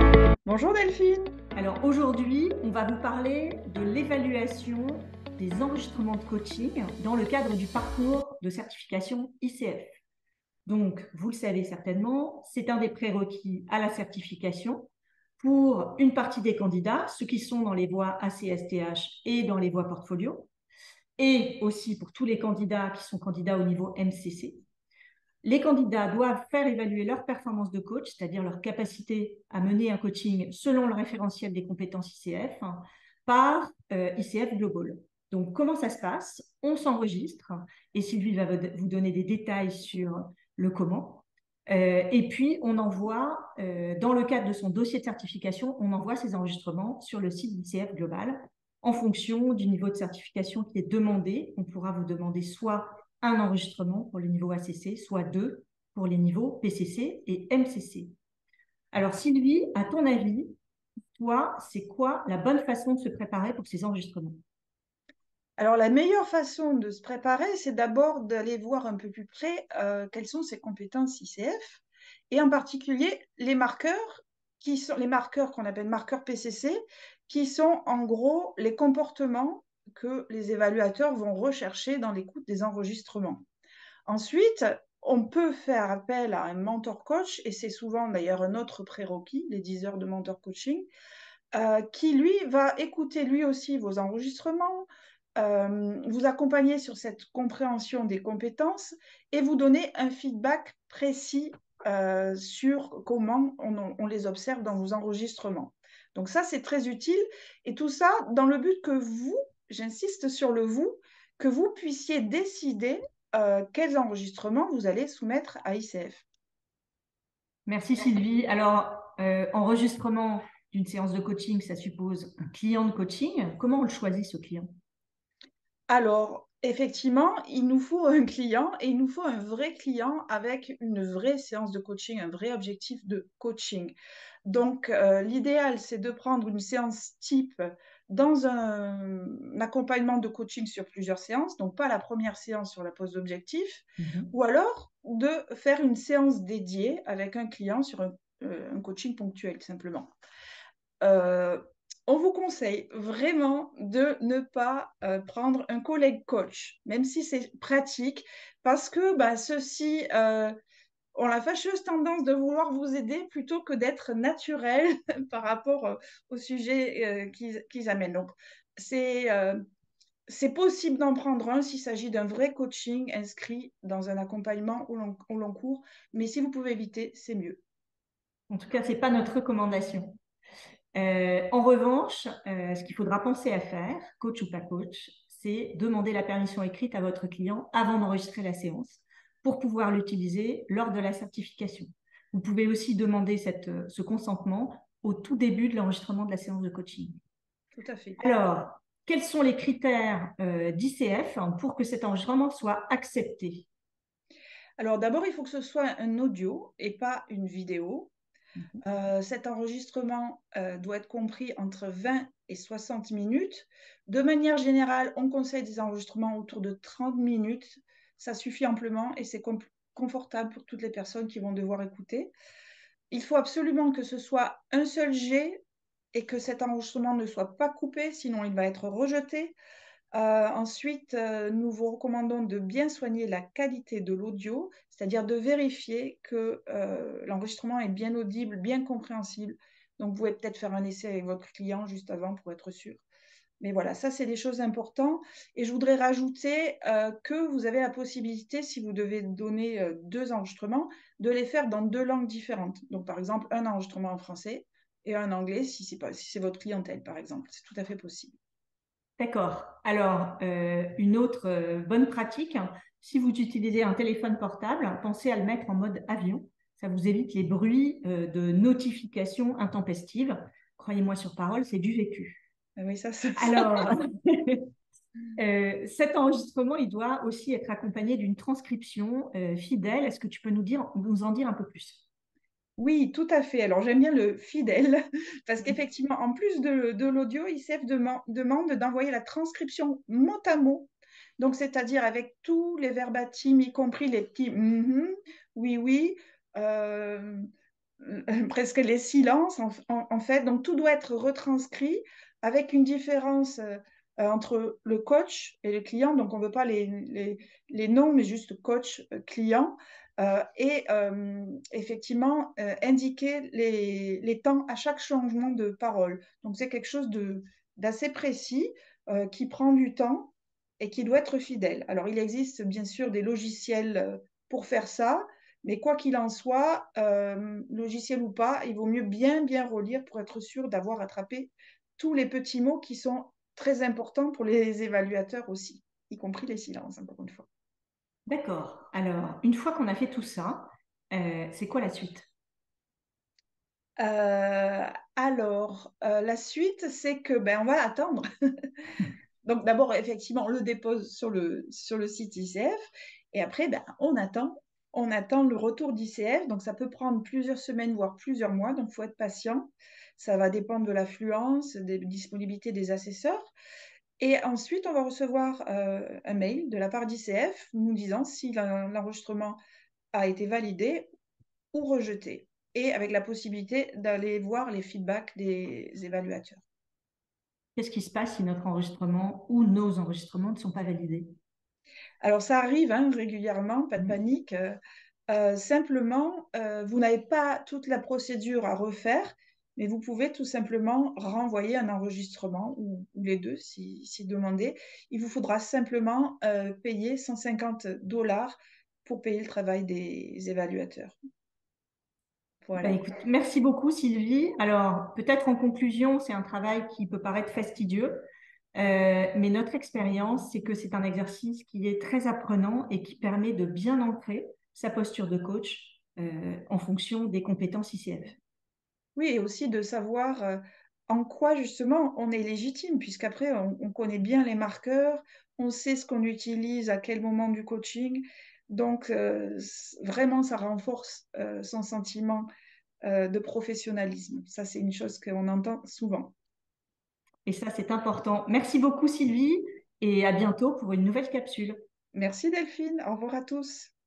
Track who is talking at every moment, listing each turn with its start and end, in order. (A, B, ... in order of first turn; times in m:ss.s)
0:00.4-0:01.3 A
0:01.6-0:10.0 B
0:10.7-0:20.5 B
0:21.2-0:24.6 B
0:25.4-0:58.1 B
0:58.9-1:00.5 B
1:01.2-1:04.4 B
1:05.6-1:23.4 A
1:24.1-1:30.9 A
1:31.6-1:56.2 A
1:57.7-2:04.7 B
2:05.9-2:13.9 A
2:14.5-2:30.1 A
2:24.0-2:24.3 B
2:31.0-2:40.6 A
2:41.1-2:49.6 A
2:50.3-2:57.6 A
2:58.5-3:00.2 B
3:01.0-3:17.2 B
3:17.8-3:18.2 A
3:18.2-3:23.7 B
3:24.8-3:28.1 A
3:28.8-3:42.3 A
3:43.1-3:45.6 A
3:46.1-3:49.6 A
3:50.1-4:03.0 A
4:03.6-4:18.4 A
4:19.2-4:32.4 B
4:32.8-4:34.0 A
4:33.4-4:34.7 B
4:35.4-4:42.0 B
4:42.8-4:57.5 A
4:58.0-5:37.5 A
5:38.3-5:42.3 B
5:44.0-5:48.7 A
5:49.4-5:52.8 A
5:53.3-6:03.5 A
6:04.2-6:09.6 A
6:10.1-6:11.1 A
6:11.7-6:16.6 A
6:17.8-6:21.3 B
6:22.2-6:24.8 A
6:25.3-6:41.2 A
6:42.6-6:43.0 A
6:42.8-6:58.4 B
6:59.2-7:12.5 A
7:13.0-7:16.3 A
7:17.5-7:21.8 B
7:22.1-7:23.9 A